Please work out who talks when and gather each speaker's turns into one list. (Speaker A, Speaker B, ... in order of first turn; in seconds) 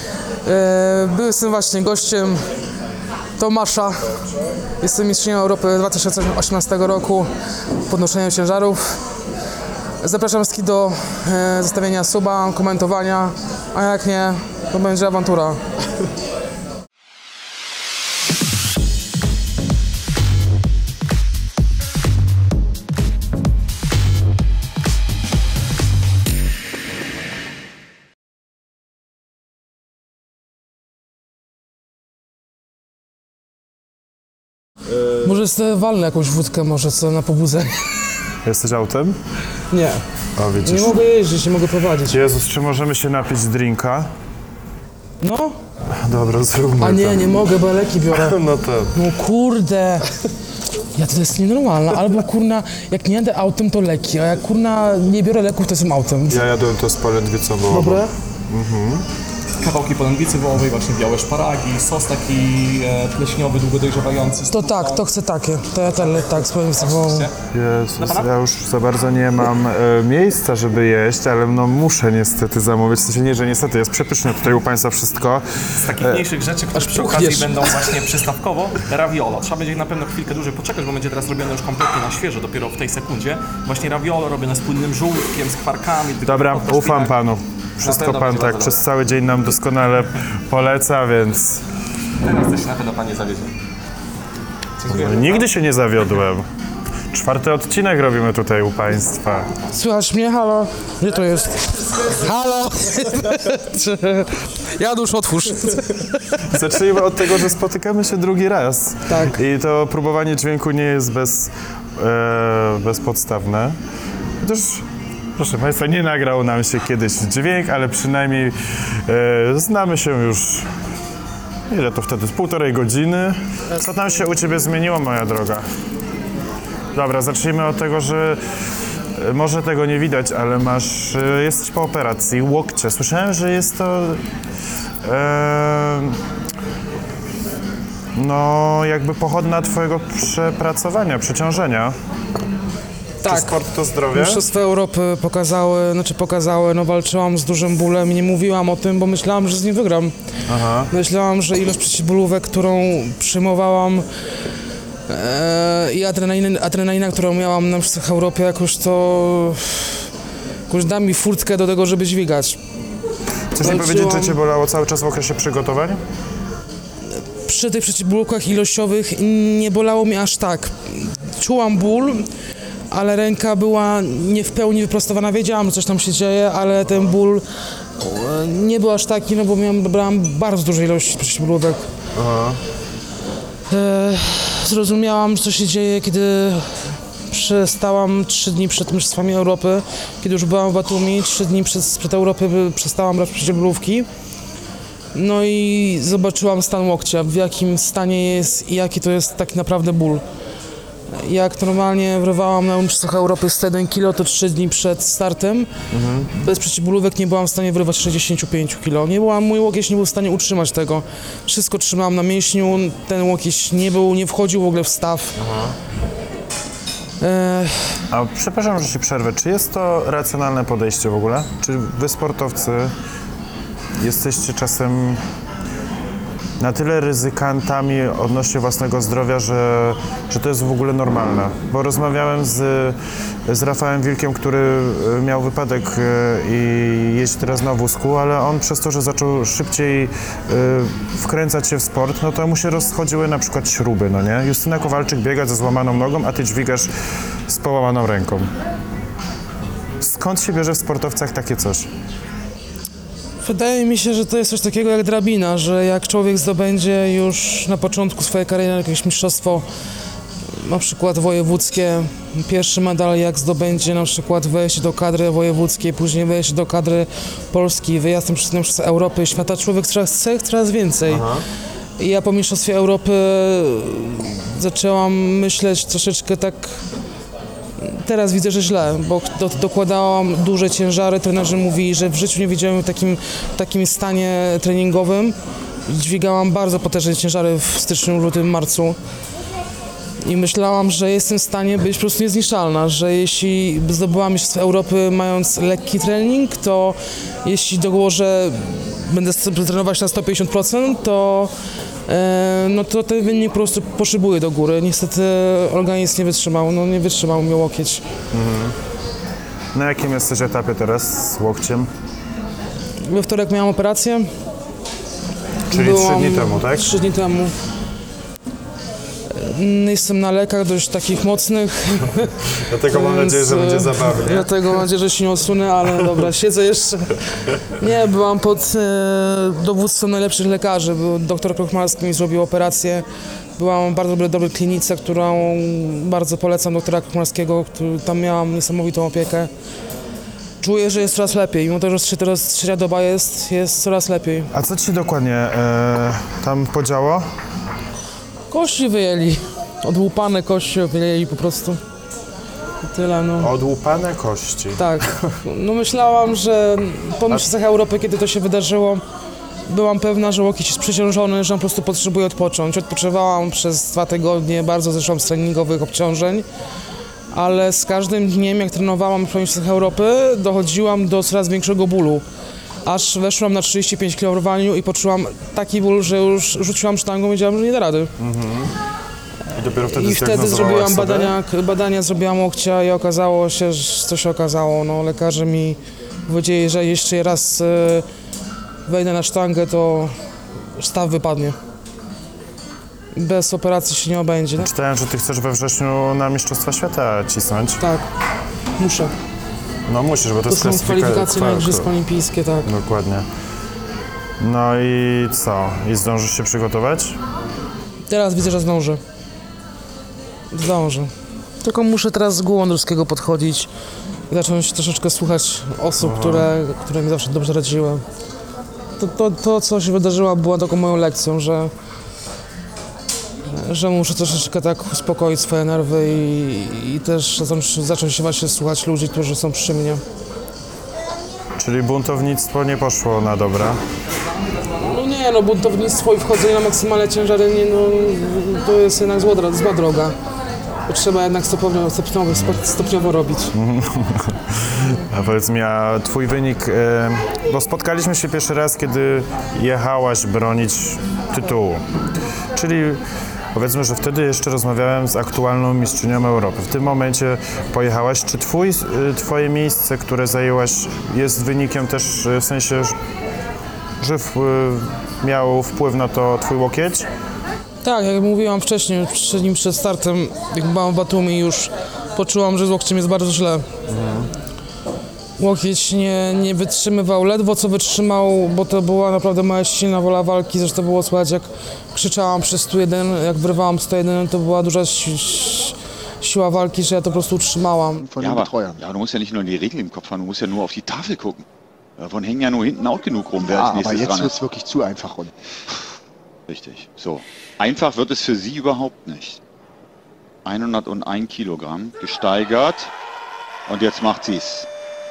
Speaker A: 0.5-2.4, 3.4-4.0, 4.8-7.3, 7.9-9.0, 10.0-15.6, 35.2-37.9, 39.7-40.0, 40.6-42.2, 45.2-45.5, 46.8-48.4, 48.9-50.1, 51.0-56.5, 57.7-58.1, 64.5-67.3, 76.8-77.7, 99.7-106.4, 109.1-109.4, 143.2-143.5, 144.1-150.1, 150.9-154.1, 155.1-160.1, 160.7-162.6, 163.6-164.4, 167.4-172.3, 172.9-177.4, 178.0-181.9, 183.7-194.1, 195.1-200.2, 201.1-205.7, 206.3-215.4, 217.2-218.0, 253.4-259.6, 260.5-271.3, 272.0-276.8, 277.8-285.4, 285.9-289.0, 290.2-301.5, 302.1-308.0, 313.1-314.3, 315.7-317.5, 319.3-322.4, 322.9-327.2, 327.7-333.1, 333.6-339.5, 340.6-344.5, 348.5-351.8, 352.8-353.5, 354.8-359.0, 359.7-366.5, 367.3-372.2, 372.9-378.1, 379.8-388.1, 388.9-390.1, 390.8-391.6, 393.1-394.7, 397.8-398.1, 398.8-399.1, 400.5-402.7, 408.1-409.0, 410.5-411.1, 411.6-413.7, 414.3-418.0, 419.0-421.7, 423.5-430.0, 434.8-440.1, 440.9-443.5, 467.8-473.7, 475.4-488.1
Speaker B: 38.5-39.2, 40.4-41.0, 42.1-44.1, 45.9-47.3, 48.1-48.9, 56.3-59.0, 67.5-76.3, 86.2-91.6, 94.9-96.5, 97.1-99.5, 106.5-113.8, 114.4-120.7, 121.7-125.7, 126.9-128.4, 129.2-134.2, 135.0-136.2, 138.2-141.9, 143.2-144.4, 150.5-150.9, 163.5-166.0, 182.2-182.6, 205.9-206.3, 215.4-215.8, 218.1-222.9, 224.0-225.2, 226.6-246.9, 247.5-248.5, 250.0-251.9, 271.1-271.4, 308.3-308.8, 309.7-311.9, 315.7-317.0, 322.7-324.6, 344.5-347.3, 353.4-355.0, 378.2-378.7, 379.6-381.3, 394.6-397.8, 399.9-401.9, 402.6-403.3, 404.4-407.2, 416.0-416.5, 431.6-433.8, 443.5-451.8, 452.6-453.0, 453.5-463.0, 464.0-467.1, 473.9-474.3
Speaker C: 59.6-65.1, 66.8-67.3, 68.0-68.3, 75.8-87.2, 87.8-88.8, 92.2-93.5, 94.8-95.5
Speaker D: 488.0-488.8, 493.4-495.3
Speaker E: 488.2-491.4, 492.0-494.4, 496.5-499.4, 500.4-502.9, 503.7-504.7